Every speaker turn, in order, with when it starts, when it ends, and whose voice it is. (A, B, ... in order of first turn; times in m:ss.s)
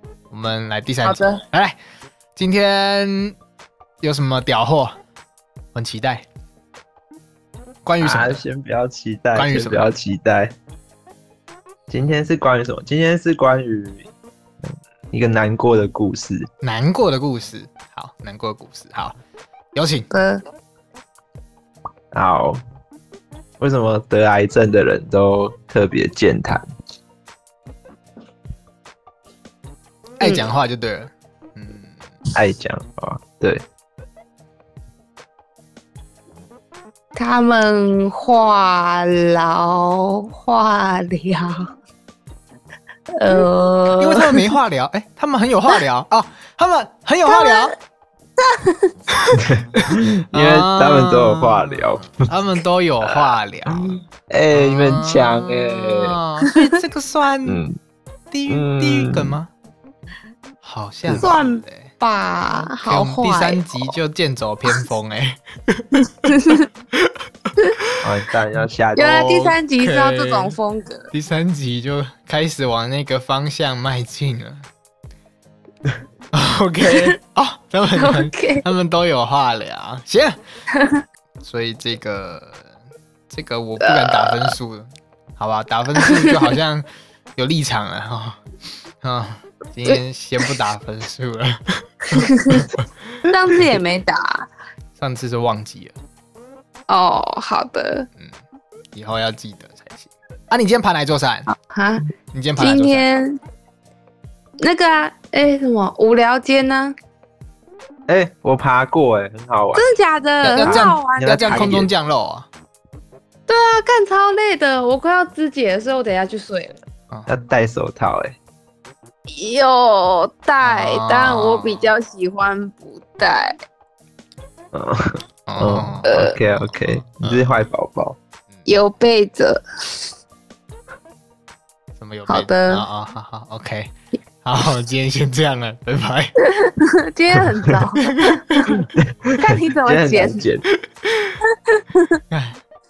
0:00.3-0:01.8 A
0:01.0-0:01.4 B
0:02.4-0:03.3 A
0:04.0-0:04.9 A
0:05.7-0:06.2 A
0:07.8-0:08.4 A
0:08.0-0:10.6 C
0:09.3-0:09.9 A
0:11.9-0:14.1 C
0:14.6-0:16.5 C
0:16.6-0:19.2 A
0:19.7-0:20.1 A
0:20.1-0:20.4 B
0:22.1-0:22.6 C
0:23.6-0:26.6 C
0:30.2-0:31.9 A
0:30.2-0:30.5 B
0:32.3-0:33.6 C
0:37.1-0:41.7 B
0:43.2-0:44.5 B
0:43.3-0:47.7 A
0:47.3-0:47.7 B
0:48.5-0:48.7 B
0:49.5-0:52.1 C
0:50.3-0:57.6 A
0:53.3-0:56.1 C
0:57.4-0:57.8 C
0:58.3-0:59.5 A
0:58.5-0:59.4 C
1:00.6-1:01.9 A
1:01.0-1:01.4 C
1:01.2-1:03.9 B
1:02.5-1:05.9 A
1:06.3-1:06.6 B
1:08.0-1:09.2 C
1:09.0-1:11.1 B
1:09.0-1:10.6 A
1:11.1-1:14.6 A
1:16.3-1:20.4 A
1:16.9-1:17.1 B
1:17.9-1:18.6 B
1:20.7-1:21.0 B
1:21.4-1:22.6 A
1:23.3-1:28.4 A
1:23.8-1:24.5 B
1:26.0-1:26.5 B
1:29.0-1:32.9 A
1:32.2-1:32.6 B
1:33.2-1:34.5 B
1:35.0-1:35.9 A
1:36.9-1:38.1 B
1:38.9-1:41.5 A
1:41.5-1:43.4 B
1:42.3-1:43.0 A
1:44.6-1:46.9 B
1:48.1-1:49.9 C
1:49.7-1:51.8 B
1:50.4-1:52.5 A
1:50.5-1:51.9 C
1:53.5-1:56.8 B
1:57.3-1:58.4 C
1:59.3-2:03.6 B
2:00.6-2:01.9 A
2:04.7-2:08.2 C
2:05.5-2:07.5 A
2:06.0-2:06.4 B
2:08.6-2:10.0 B
2:12.0-2:16.3 A
2:12.3-2:12.8 B
2:16.5-2:18.8 B
2:19.3-2:20.4 B
2:19.8-2:20.6 C
2:22.3-2:22.6 A